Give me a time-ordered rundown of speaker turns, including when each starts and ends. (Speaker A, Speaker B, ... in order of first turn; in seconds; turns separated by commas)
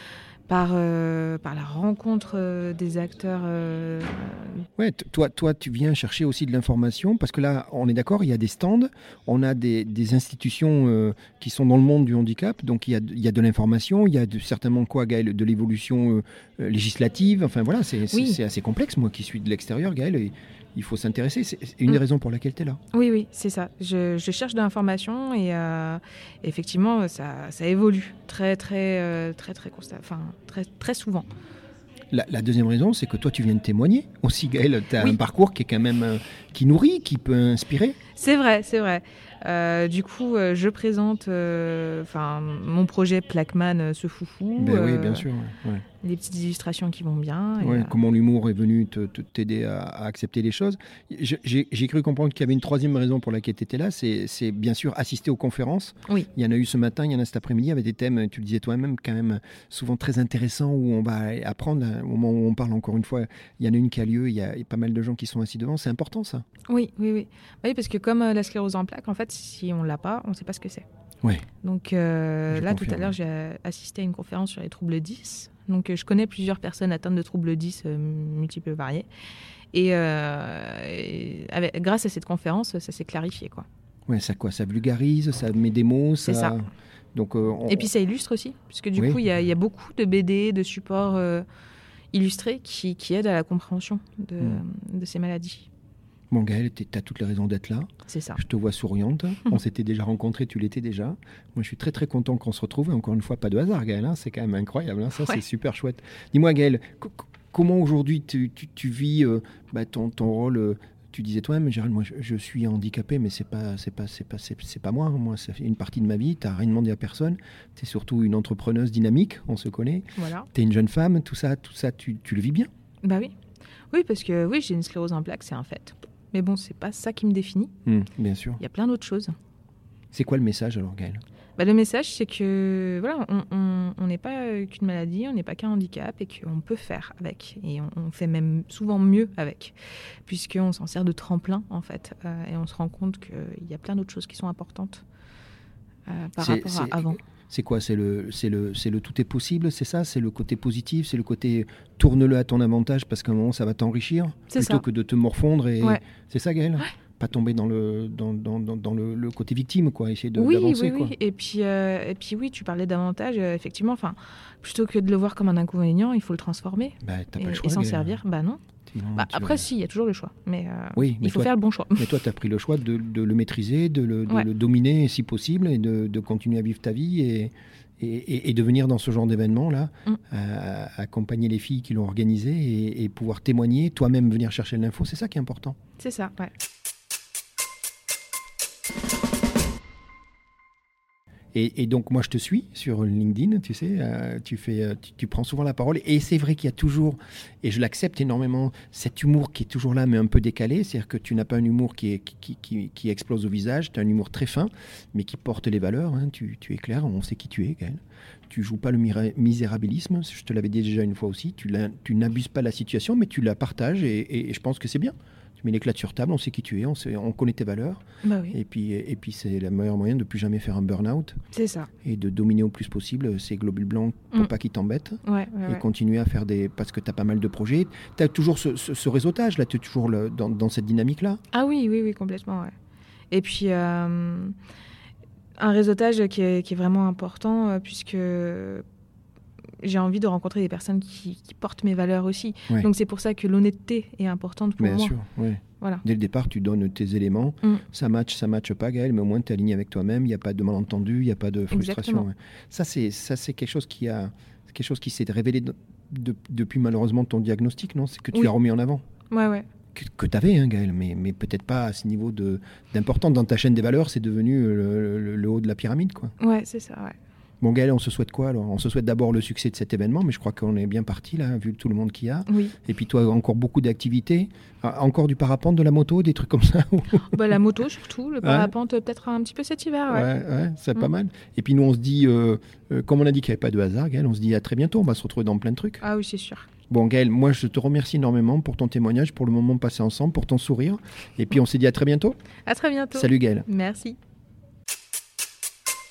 Speaker A: 0.5-4.7, Speaker B: 4.8-22.8, Speaker A: 18.1-18.4, Speaker A: 22.9-31.3, Speaker B: 32.1-38.0, Speaker A: 38.1-45.3, Speaker B: 44.6-45.8, Speaker A: 46.0-48.0, Speaker B: 47.6-66.5, Speaker A: 66.7-70.8, Speaker A: 71.6-79.1, Speaker B: 72.5-73.2, Speaker A: 79.7-83.7, Speaker B: 84.1-87.9, Speaker A: 86.2-86.6, Speaker A: 87.7-91.5, Speaker B: 89.0-89.2, Speaker A: 92.1-95.7, Speaker B: 96.3-122.7, Speaker A: 98.1-98.4, Speaker A: 120.2-120.5, Speaker A: 123.0-123.3, Speaker A: 123.9-127.8, Speaker B: 127.8-128.6, Speaker A: 128.6-129.3, Speaker B: 130.1-131.2, Speaker A: 131.6-139.8, Speaker A: 140.3-145.0, Speaker A: 146.1-147.2, Speaker B: 146.4-161.2, Speaker A: 154.5-154.8, Speaker A: 160.3-168.6, Speaker B: 167.0-168.2, Speaker B: 168.9-169.7, Speaker A: 169.2-172.1, Speaker B: 171.0-185.8, Speaker A: 186.0-186.5, Speaker B: 191.5-221.4, Speaker A: 218.2-218.6, Speaker A: 221.5-221.9, Speaker B: 222.0-231.4, Speaker A: 225.2-225.8, Speaker A: 231.5-232.7, Speaker A: 233.3-234.6, Speaker A: 235.6-238.8, Speaker A: 239.8-245.2, Speaker B: 244.8-259.0, Speaker A: 251.7-252.3, Speaker A: 259.3-259.7, Speaker B: 259.9-266.3, Speaker A: 266.4-267.2, Speaker B: 267.6-277.6, Speaker A: 272.5-272.8, Speaker A: 277.3-280.3, Speaker B: 278.4-278.7, Speaker B: 280.1-286.0, Speaker A: 286.0-286.7, Speaker B: 286.9-292.4, Speaker A: 292.7-294.2, Speaker B: 293.1-293.7